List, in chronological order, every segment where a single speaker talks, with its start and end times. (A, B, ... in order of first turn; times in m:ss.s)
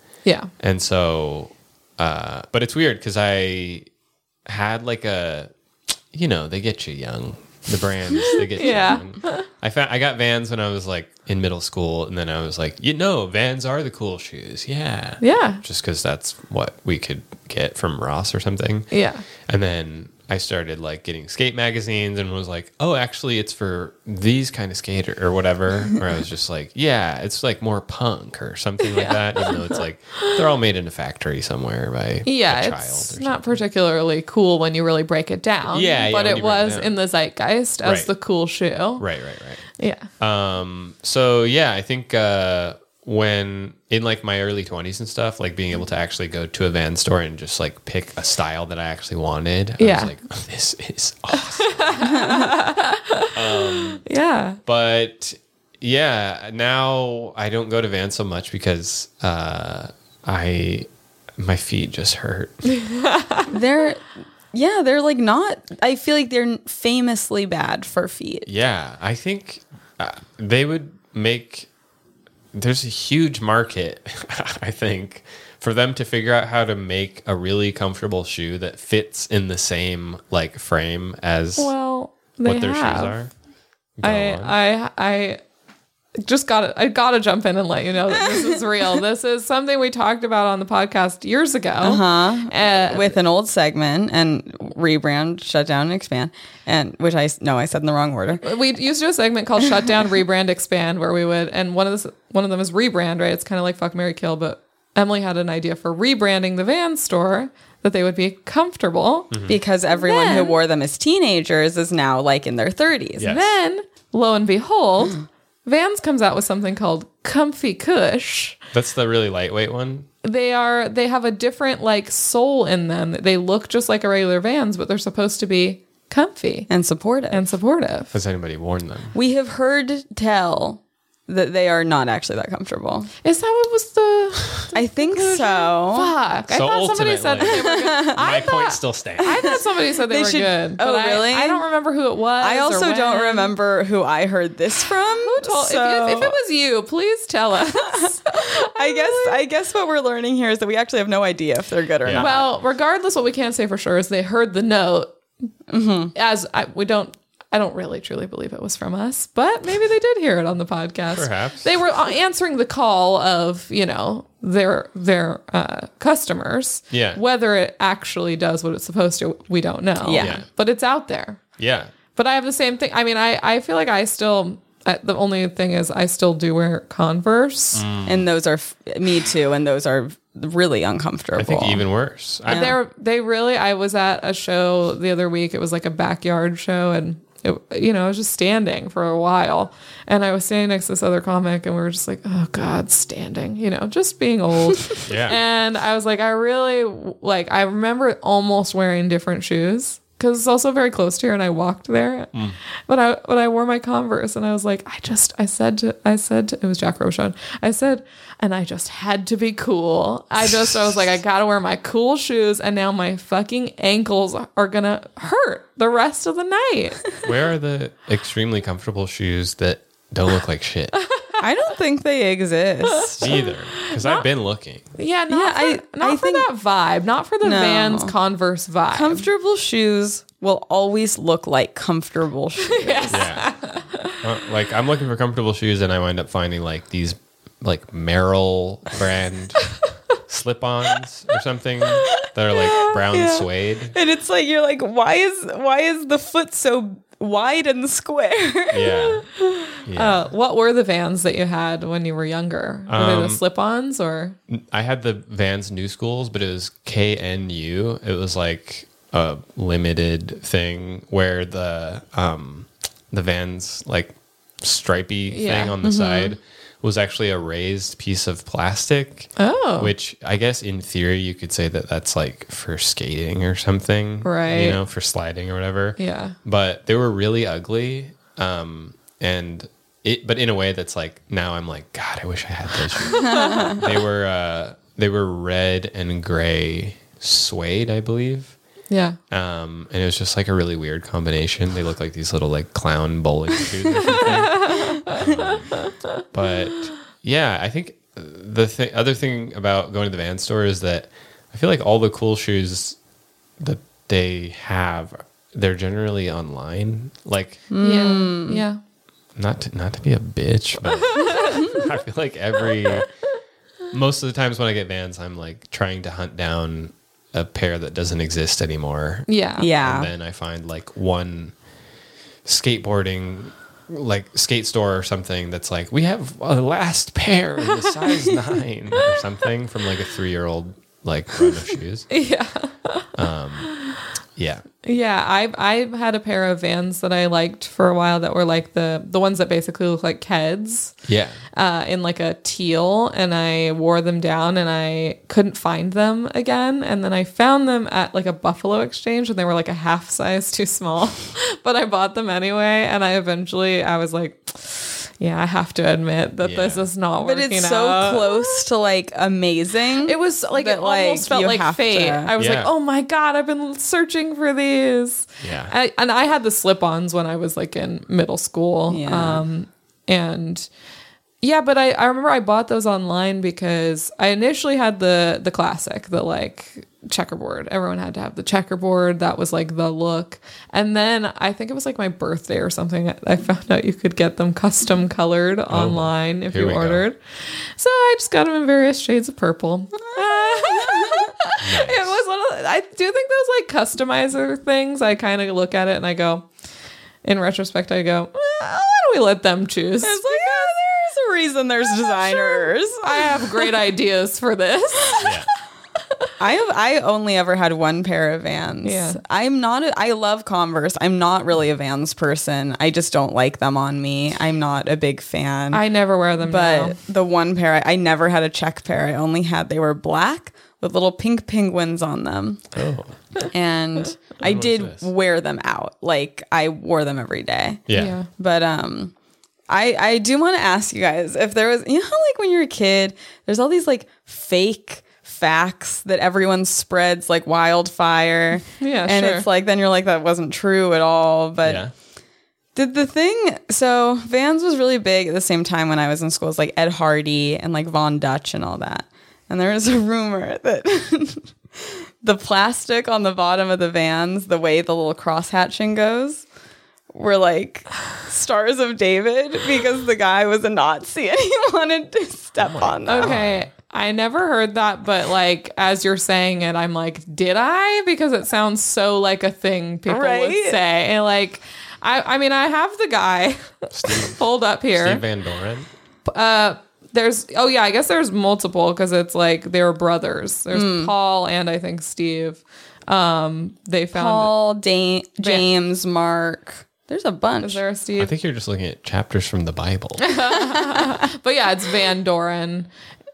0:00.2-0:00.5 A
0:00.6-0:03.9 B
0:04.4-0:05.5 B
0:06.1-0:18.9 B
0:08.3-0:09.5 A
0:15.2-0:15.6 A
0:18.9-0:19.2 A
0:19.4-0:33.6 B
0:28.9-0:30.4 A
0:32.2-0:39.0 A
0:35.7-0:36.9 B
0:37.8-0:38.1 B
0:39.0-0:39.6 B
0:39.8-0:40.1 A
0:40.2-0:52.5 B
0:49.8-0:50.1 A
0:51.7-0:54.6 A
0:53.3-0:54.0 B
0:54.6-1:00.9 B
1:01.4-1:02.6 B
1:02.6-1:03.5 A
1:03.5-1:08.5 C
1:08.5-1:11.7 B
1:12.5-1:21.7 B
1:21.6-1:23.2 A
1:22.4-1:23.3 B
1:24.0-1:24.5 B
1:24.0-1:25.4 A
1:26.2-1:33.2 A
1:28.3-1:28.6 C
1:31.8-1:38.4 C
1:38.4-1:49.3 A
1:49.3-1:49.6 B
1:49.5-1:53.3 C
1:49.9-1:50.6 A
1:53.2-1:53.4 B
1:53.2-1:58.6 A
1:58.7-2:00.1 B
2:00.2-2:06.7 A
2:06.7-2:07.4 C
2:07.3-2:08.1 A
2:08.1-2:09.1 B
2:09.1-2:13.1 C
2:13.2-2:23.5 A
2:14.7-2:16.1 C
2:16.5-2:19.6 B
2:17.4-2:18.2 C
2:19.2-2:21.6 C
2:22.4-2:26.4 C
2:25.0-2:29.4 A
2:27.9-2:32.4 C
2:32.0-2:32.3 B
2:32.1-2:35.1 A
2:35.7-2:36.1 C
2:36.1-2:51.4 A
2:41.1-2:41.7 B
2:46.9-2:47.2 B
2:50.0-2:50.4 C
2:50.2-2:50.4 B
2:51.6-2:51.9 B
2:52.1-2:57.8 A
2:57.7-2:58.3 B
2:58.0-3:01.8 C
3:01.4-3:02.7 B
3:02.5-3:02.8 C
3:02.5-3:22.3 A
3:15.0-3:15.4 B
3:22.9-3:37.1 A
3:37.2-3:41.0 B
3:41.4-3:43.4 C
3:42.8-3:44.2 A
3:43.2-3:44.9 B
3:44.9-3:49.3 A
3:45.3-3:46.5 C
3:47.4-3:48.1 C
3:48.9-3:53.3 C
3:52.6-3:54.2 A
3:53.1-3:53.5 B
3:54.2-3:59.6 B
4:00.3-4:03.9 B
4:03.1-4:08.9 C
4:08.7-4:09.2 B
4:09.3-4:14.4 A
4:09.8-4:10.2 B
4:12.9-4:13.4 B
4:14.5-4:48.5 B
4:25.3-4:25.7 A
4:25.8-4:26.3 C
4:29.4-4:29.9 A
4:34.2-4:34.8 A
4:36.0-4:36.4 A
4:43.1-4:43.8 A
4:43.2-4:43.8 C
4:48.9-4:49.2 A
4:49.3-5:03.0 B
4:54.4-4:55.8 A
5:03.6-5:07.7 B
5:07.7-5:08.6 C
5:07.8-5:08.8 A
5:09.4-5:13.1 B
5:11.0-5:11.7 A
5:13.9-5:21.5 B
5:19.3-5:19.7 A
5:19.6-5:20.1 C
5:22.4-5:32.1 B
5:32.1-5:33.1 A
5:33.1-5:33.7 B
5:33.6-5:34.0 A
5:34.4-5:34.6 B
5:34.8-5:40.9 A
5:41.0-5:41.4 B
5:41.5-5:58.6 A
5:56.4-5:56.9 B
5:57.2-6:02.3 C
6:00.0-6:10.7 A
6:02.4-6:02.7 B
6:05.4-6:05.7 B
6:08.9-6:09.4 C
6:11.4-6:36.5 A
6:25.7-6:27.0 B
6:30.1-6:31.3 C
6:31.6-6:32.2 B
6:37.2-6:40.7 A
6:40.0-6:43.7 C
6:42.2-6:45.3 A
6:45.2-6:45.5 B
6:46.4-6:55.8 C
6:48.8-6:49.2 A
6:55.7-6:57.0 A
6:56.4-7:02.7 C
7:02.8-7:03.1 B
7:03.5-7:09.1 C
7:04.4-7:05.0 B
7:07.9-7:08.1 B
7:07.9-7:08.3 A
7:09.7-7:21.8 C
7:18.8-7:19.5 A
7:21.6-7:21.9 B
7:22.8-7:36.4 C
7:37.1-7:43.4 C
7:42.6-7:43.7 B
7:43.0-7:55.2 A
7:50.1-7:50.8 C
7:53.9-7:55.9 B
7:56.3-8:04.5 A
8:00.7-8:01.1 C
8:04.1-8:07.8 C
8:05.4-8:05.6 A
8:07.6-8:08.3 A
8:08.2-8:10.4 B
8:10.2-8:12.9 A